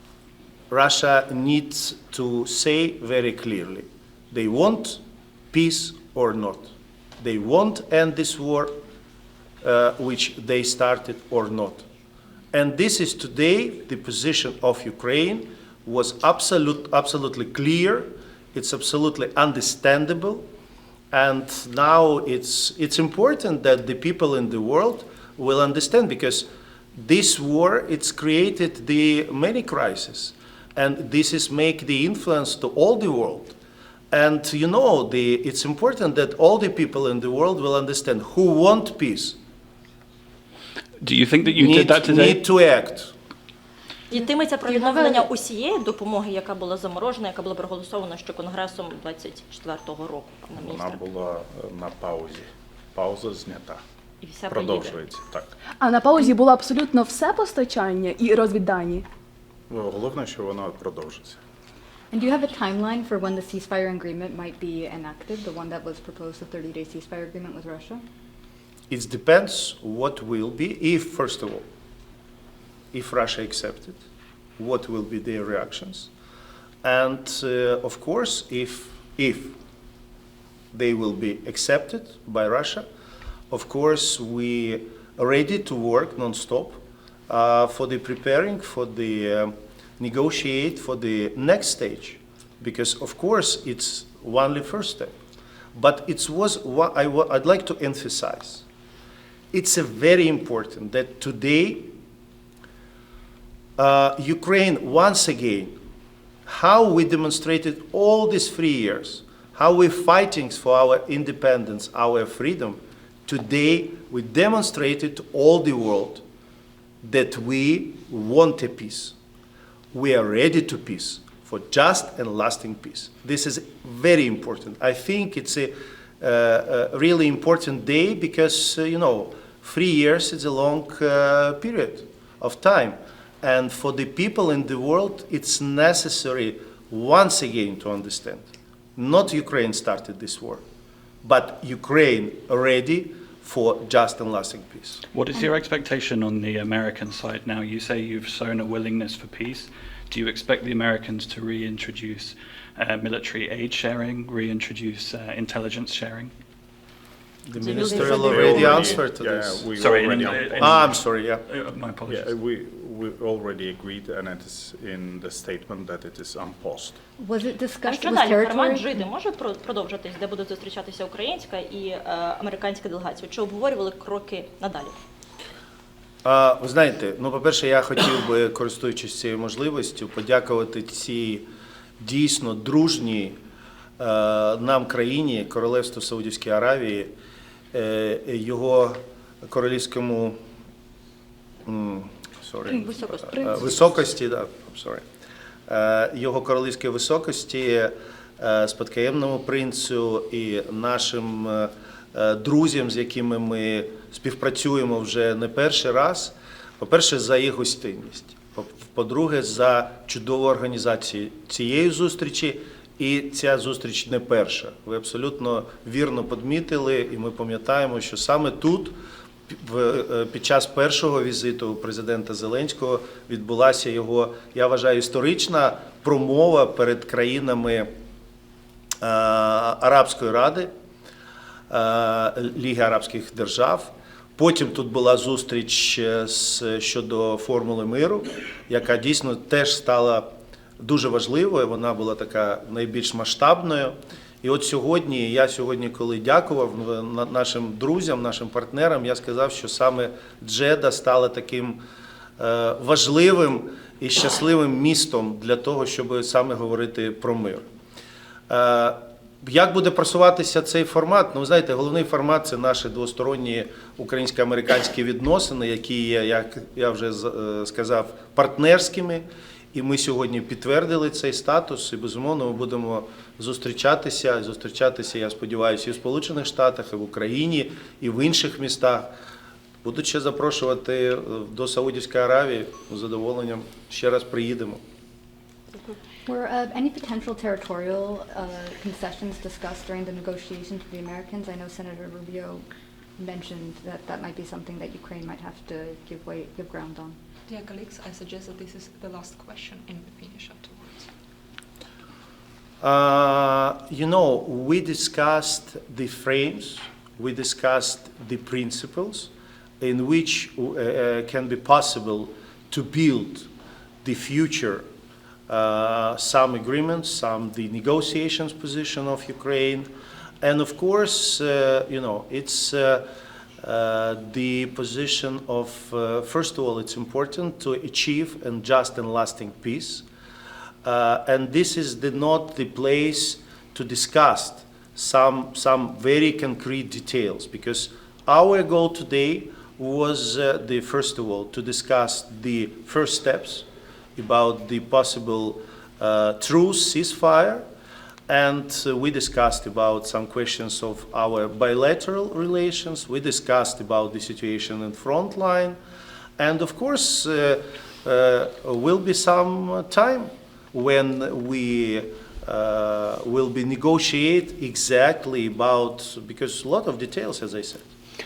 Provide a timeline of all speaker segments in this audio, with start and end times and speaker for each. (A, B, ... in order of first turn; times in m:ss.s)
0:00.7-0:08.8 A
0:09.6-0:11.8 A
0:12.5-0:20.4 A
0:21.1-0:33.5 A
0:34.1-0:39.4 A
0:41.0-0:42.4 B
0:41.5-0:43.1 A
0:44.1-0:51.0 C
0:45.0-0:45.2 D
0:50.6-0:53.8 E
0:54.2-0:55.0 C
0:54.5-0:55.5 E
0:55.8-0:59.1 F
0:59.7-1:01.4 E
1:02.1-1:08.0 D
1:08.9-1:11.6 A
1:12.9-1:14.0 A
1:14.6-1:16.1 A
1:16.8-1:19.6 A
1:20.7-1:22.9 A
1:23.5-1:35.2 A
1:35.8-1:38.6 A
1:39.5-1:42.0 A
1:43.8-1:45.8 A
1:46.5-1:56.2 A
1:57.0-1:59.2 A
1:59.9-2:20.6 A
2:21.2-2:25.0 A
2:25.1-2:36.3 B
2:37.5-2:39.7 A
2:37.6-2:39.0 C
2:37.9-2:40.8 E
2:39.8-2:42.3 B
2:40.6-2:41.4 A
2:42.1-2:47.0 E
2:47.2-2:49.1 D
2:47.8-2:55.0 C
2:56.2-3:01.5 A
3:02.0-3:03.4 A
3:04.0-3:07.1 A
3:07.7-3:10.4 A
3:11.7-3:15.0 A
3:12.7-3:13.7 C
3:15.7-3:39.0 A
3:39.5-3:47.9 A
3:49.0-3:50.7 A
3:51.7-4:00.3 A
4:00.8-4:11.8 A
4:12.4-4:17.7 A
4:18.5-4:39.1 A
4:39.8-4:44.8 A
4:46.3-4:52.7 D
4:53.2-4:57.2 D
4:57.5-5:01.1 G
5:02.8-5:13.5 A
5:14.0-5:14.8 A
5:15.5-5:19.9 A
5:20.4-5:23.1 A
5:23.6-5:30.0 A
5:30.8-5:47.6 A
5:48.3-5:55.8 A
5:56.4-6:07.8 A